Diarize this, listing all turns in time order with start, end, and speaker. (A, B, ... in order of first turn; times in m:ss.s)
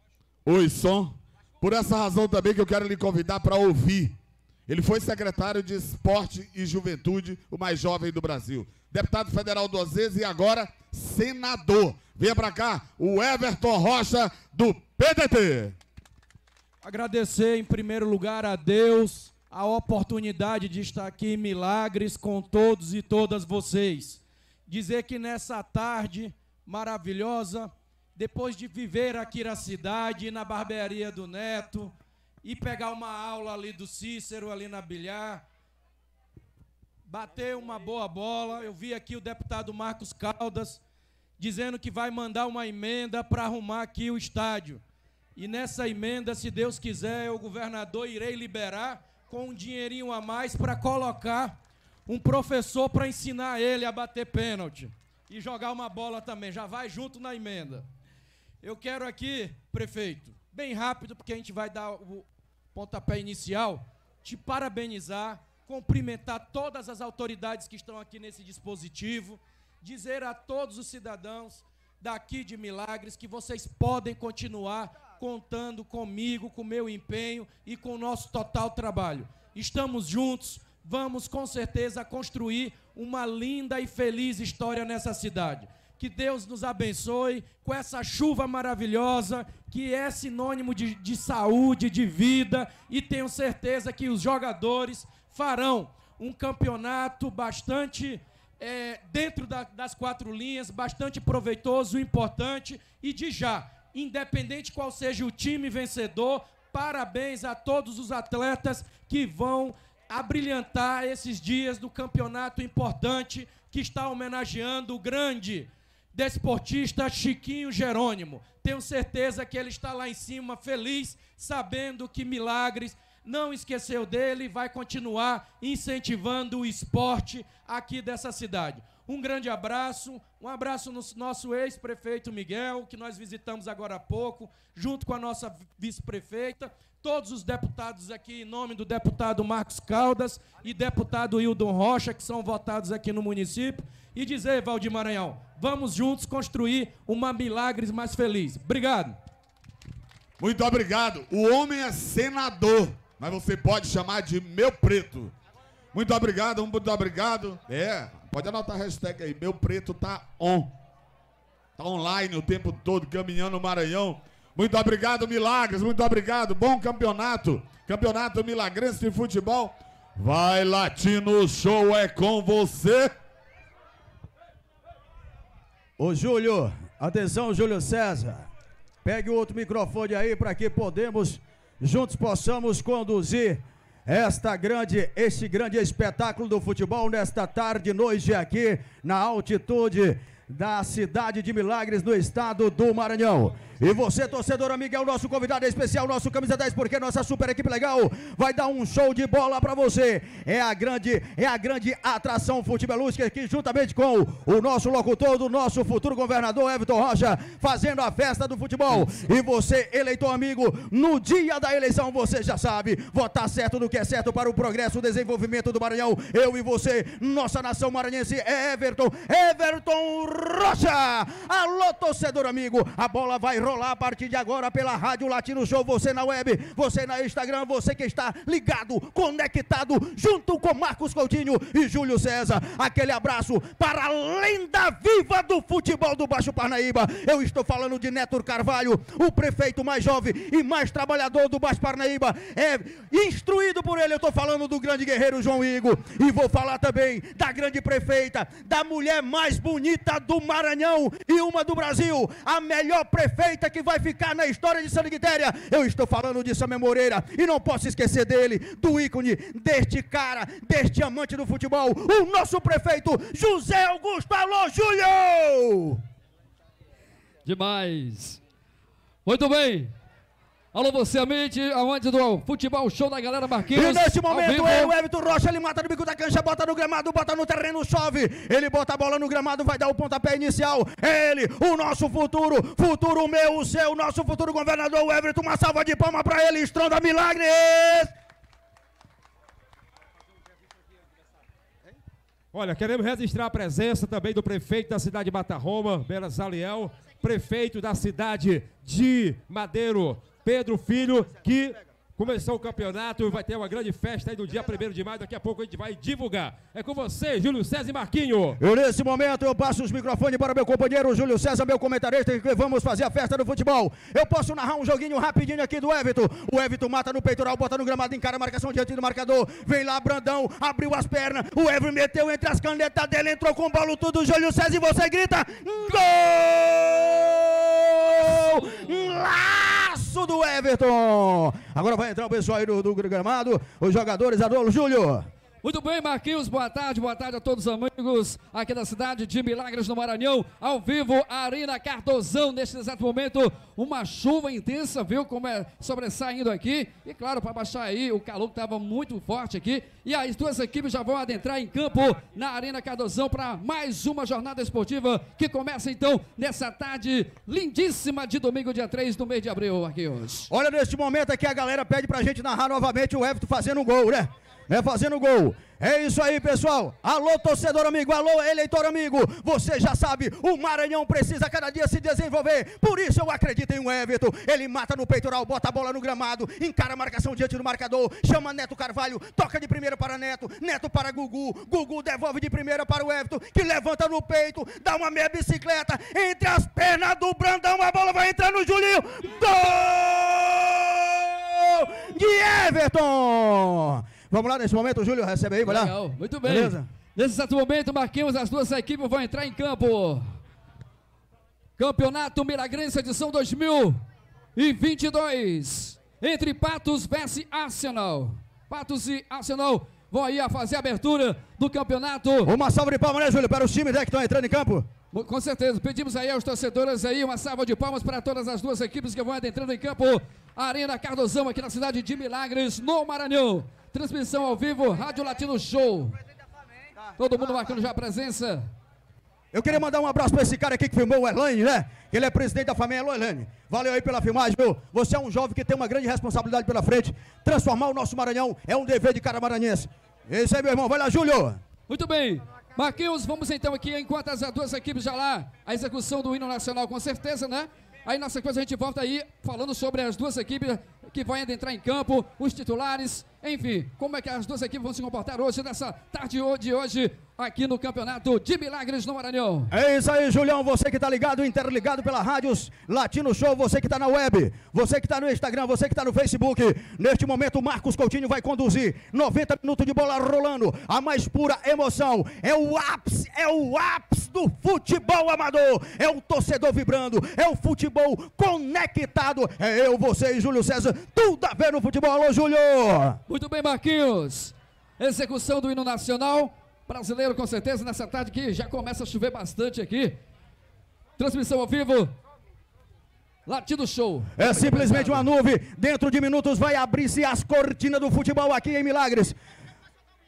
0:00.4-0:04.2 A
0:04.7-0:15.8 A
0:16.8-0:35.4 B
0:37.1-0:40.8 B
0:41.4-0:44.8 B
0:45.4-0:57.9 B
0:58.6-2:29.2 B
2:30.4-2:35.3 A
2:35.9-2:40.7 A
2:41.8-2:53.1 A
2:56.0-2:58.5 C
2:59.0-4:26.0 C
4:27.4-4:28.4 D
4:29.2-4:29.9 D
4:30.7-4:34.9 D
4:33.7-4:48.1 C
4:52.5-5:08.6 E
5:08.6-5:35.3 C
5:35.6-6:00.5 D
6:00.5-6:36.9 C
6:35.6-6:40.2 D
6:41.8-6:44.0 D
6:44.6-6:52.5 D
6:52.5-6:54.9 C
6:55.1-7:06.2 D
7:07.2-7:08.6 D
7:09.5-7:21.6 C
7:21.9-7:39.7 D
7:39.7-8:03.2 C
8:03.3-8:10.2 D
8:11.2-8:12.1 D
8:13.5-8:15.3 D
8:14.4-8:19.4 C